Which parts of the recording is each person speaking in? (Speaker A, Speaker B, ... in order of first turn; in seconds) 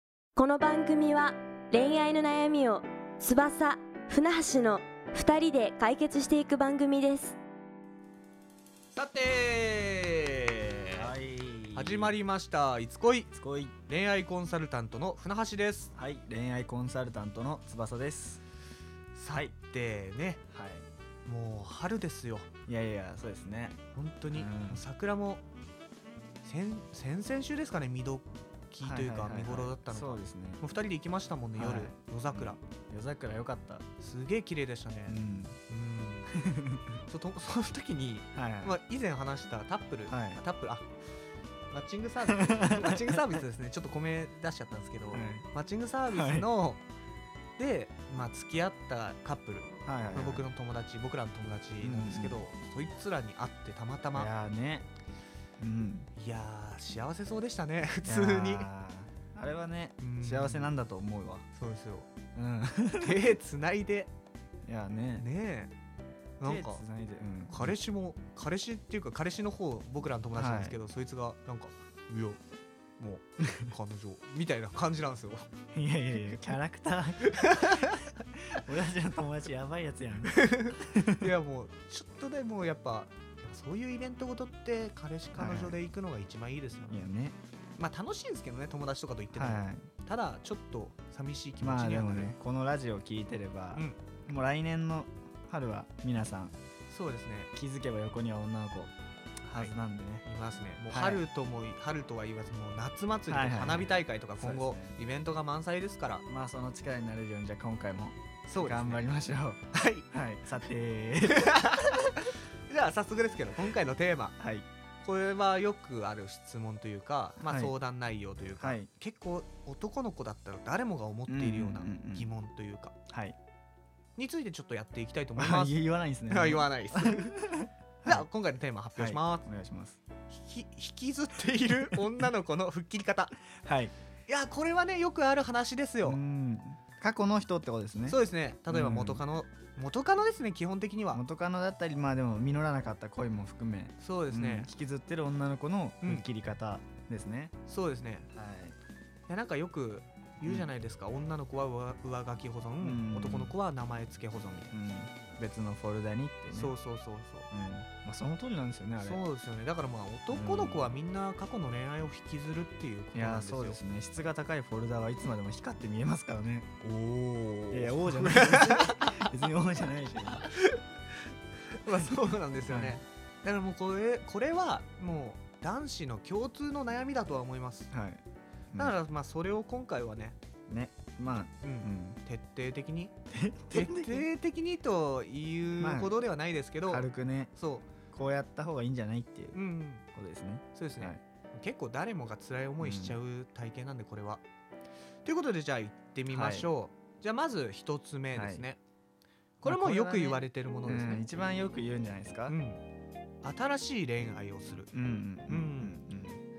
Speaker A: 0.3-7.4
Speaker B: 8.9-11.1, 11.7-13.3, 13.9-15.9, 19.1-20.4, 21.2-22.5, 23.9-25.4, 26.4-32.6, 34.0-36.4, 37.1-40.9, 41.7-46.8, 47.6-54.3, 56.1-58.7, 60.0-60.8, 61.5-62.1, 63.0-64.1, 65.2-65.7, 66.4-66.8, 67.5-72.4, 73.0-75.5, 77.3-78.1, 80.3-87.0, 87.8-92.3, 96.9-97.5, 99.5-106.2, 108.5-109.0, 109.7-110.0, 111.3-114.3, 115.0-122.9, 124.2-127.5, 128.0-129.4, 130.3-133.4, 134.3-136.2, 138.1-141.2, 144.0-144.7, 147.7-148.3, 149.3-154.8, 156.5-157.5, 159.0-163.8, 166.8-169.3, 170.2-170.8, 171.7-177.9, 178.8-180.4, 181.6-183.1, 183.7-187.9, 189.5-190.0, 190.7-194.4, 195.2-198.8, 199.6-201.2, 202.5-202.8, 203.4-204.9, 205.5-206.0
Speaker C: 10.9-12.2, 13.3-13.8, 15.9-18.4, 20.5-20.9, 22.7-24.8, 28.8-30.6, 31.6-33.9, 35.1-35.6, 36.3-37.0, 38.3-38.8, 40.1-40.4, 42.2-43.1, 45.1-45.5, 46.1-46.5, 49.8-50.5, 51.8-52.4, 54.1-54.9, 55.6-56.1, 58.0-61.5, 62.3-63.3, 64.7-65.3, 66.4-67.8, 70.3-70.8, 73.4-73.7, 75.7-81.3, 85.3-85.8, 86.9-87.4, 89.3-89.9, 91.6-96.5, 97.5-98.9, 99.5-100.2, 100.9-101.2, 103.3-105.0, 106.2-111.9, 114.4-114.7, 117.4-117.7, 118.6-118.9, 121.3-122.3, 123.1-123.3, 125.4-128.3, 128.9-130.0, 133.6-133.9, 136.0-139.2, 141.1-147.5, 148.3-148.8, 150.4-150.7, 152.8-153.5, 154.7-156.7, 157.5-159.2, 160.3-160.9, 163.1-166.7, 167.7-170.5, 172.7-173.0, 177.9-178.2, 180.7-182.2, 183.3-184.3, 185.8-186.2, 186.8-187.5, 188.1-189.6, 190.1-191.2, 192.8-193.2, 196.3-196.7, 198.3-198.7, 199.6-202.6, 204.9-206.4